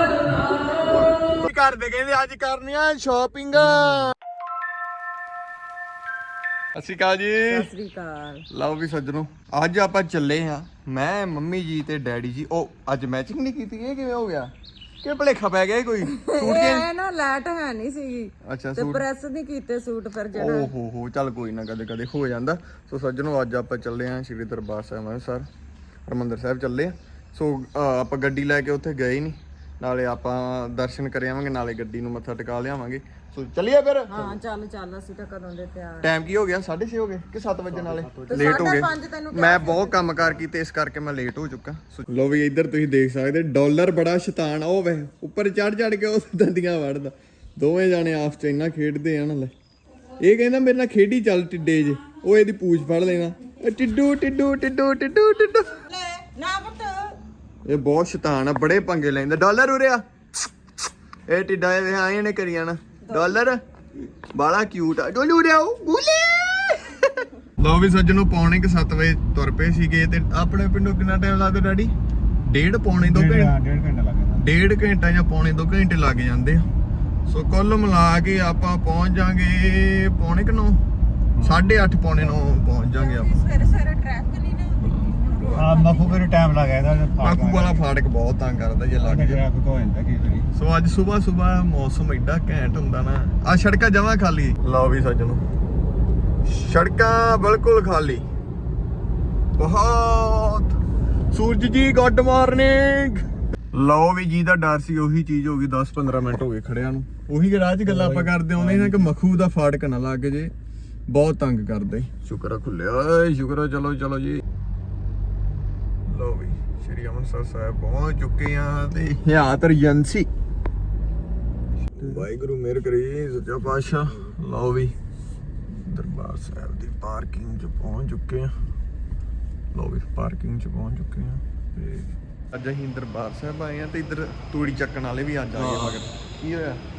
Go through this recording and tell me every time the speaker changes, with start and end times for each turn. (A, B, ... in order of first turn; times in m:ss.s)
0:00.8-0:04.1 A
0:06.7-0:07.7 A
0:07.5-0:08.5 B
0:08.5-0:16.9 A
0:16.0-0:20.7 B
0:18.4-0:19.0 A
0:20.3-0:25.5 A
0:26.0-0:34.4 A
0:34.1-0:36.1 B
0:36.0-0:49.5 A
0:37.7-0:38.8 C
0:38.3-0:40.0 B
0:40.1-0:40.4 C
0:50.2-0:55.8 A
0:55.8-0:57.2 B
0:57.7-1:00.5 A
1:01.3-1:03.6 A
1:03.1-1:03.5 B
1:04.3-1:11.9 A
1:12.4-1:13.5 A
1:13.0-1:14.5 C
1:14.3-1:16.7 A
1:17.3-1:20.8 A
1:21.4-1:21.8 C
1:21.4-1:23.3 A
1:22.9-1:26.3 B
1:25.6-1:27.9 C
1:27.2-1:29.4 A
1:29.0-1:30.5 C
1:30.5-1:35.4 A
1:36.4-1:38.2 A
1:39.6-1:40.7 A
1:41.3-1:50.5 A
1:47.8-1:49.1 C
1:51.1-1:54.4 A
1:56.1-2:00.3 A
2:01.9-2:05.0 A
2:05.7-2:08.5 A
2:09.7-2:16.8 A
2:15.6-2:16.0 C